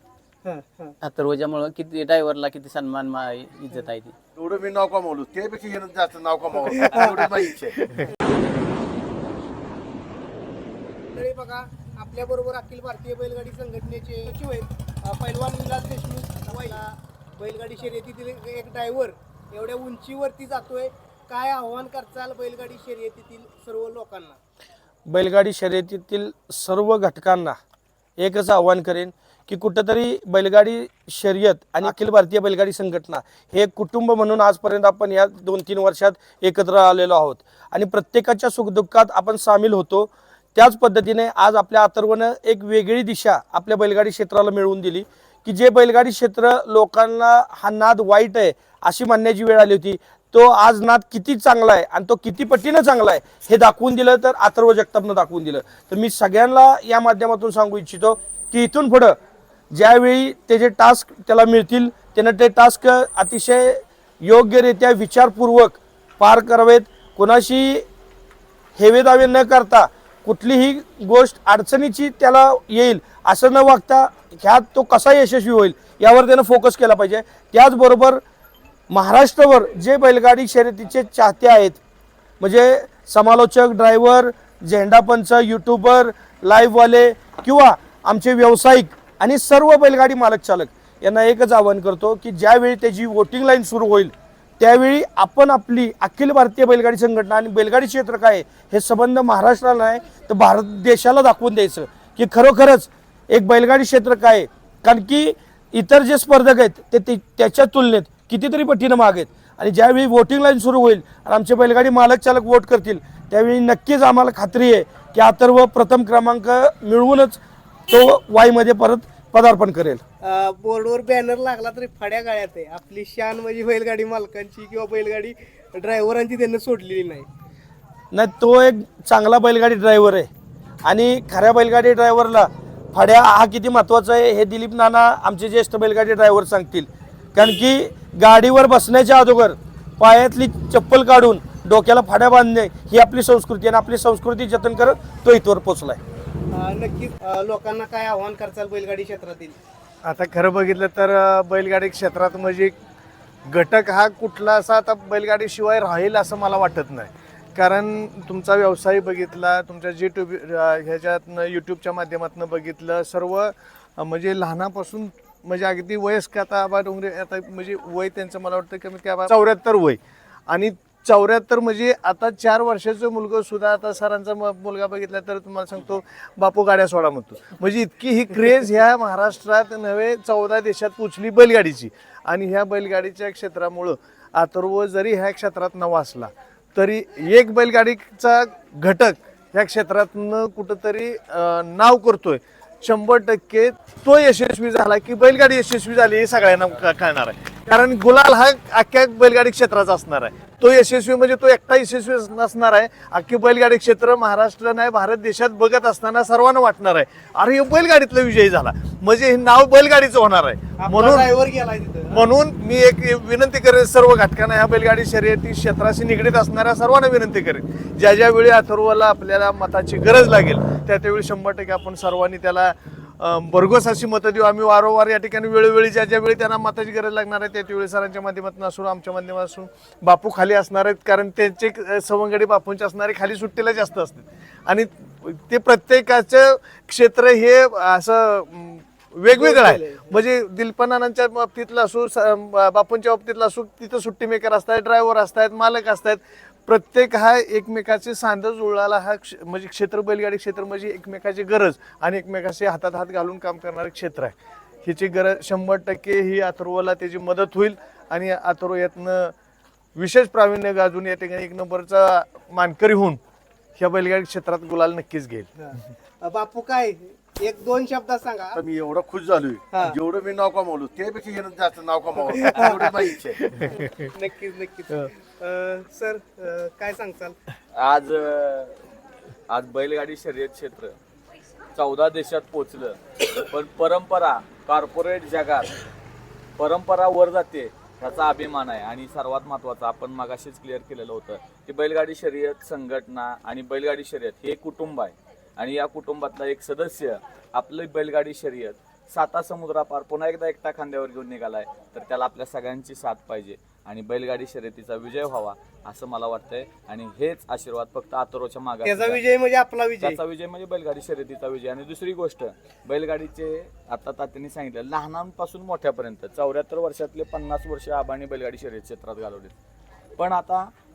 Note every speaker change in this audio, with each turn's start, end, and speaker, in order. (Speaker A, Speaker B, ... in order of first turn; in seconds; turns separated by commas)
Speaker A: 0.4-0.9, Speaker B: 1.0-4.1, Speaker C: 4.4-7.8, Speaker A: 6.7-7.1, Speaker A: 11.1-24.4, Speaker D: 25.1-27.6, Speaker D: 28.2-59.2, Speaker D: 59.7-67.9, Speaker D: 68.8-78.2, Speaker D: 78.9-81.8, Speaker D: 82.4-120.0, Speaker A: 120.2-127.3, Speaker D: 128.1-130.3, Speaker D: 130.8-146.0, Speaker A: 146.5-149.6, Speaker E: 150.0-152.8, Speaker E: 153.5-211.3, Speaker A: 210.8-212.2, Speaker E: 212.1-259.3, Speaker A: 239.3-240.2, Speaker E: 259.9-263.2, Speaker E: 263.8-265.5, Speaker A: 265.6-268.6, Speaker C: 268.6-273.5, Speaker A: 269.7-270.0, Speaker A: 272.3-277.4, Speaker F: 277.8-278.8, Speaker F: 279.5-281.0, Speaker F: 281.8-285.8, Speaker F: 286.6-309.2, Speaker A: 308.8-310.2, Speaker F: 310.0-319.6, Speaker F: 320.2-320.7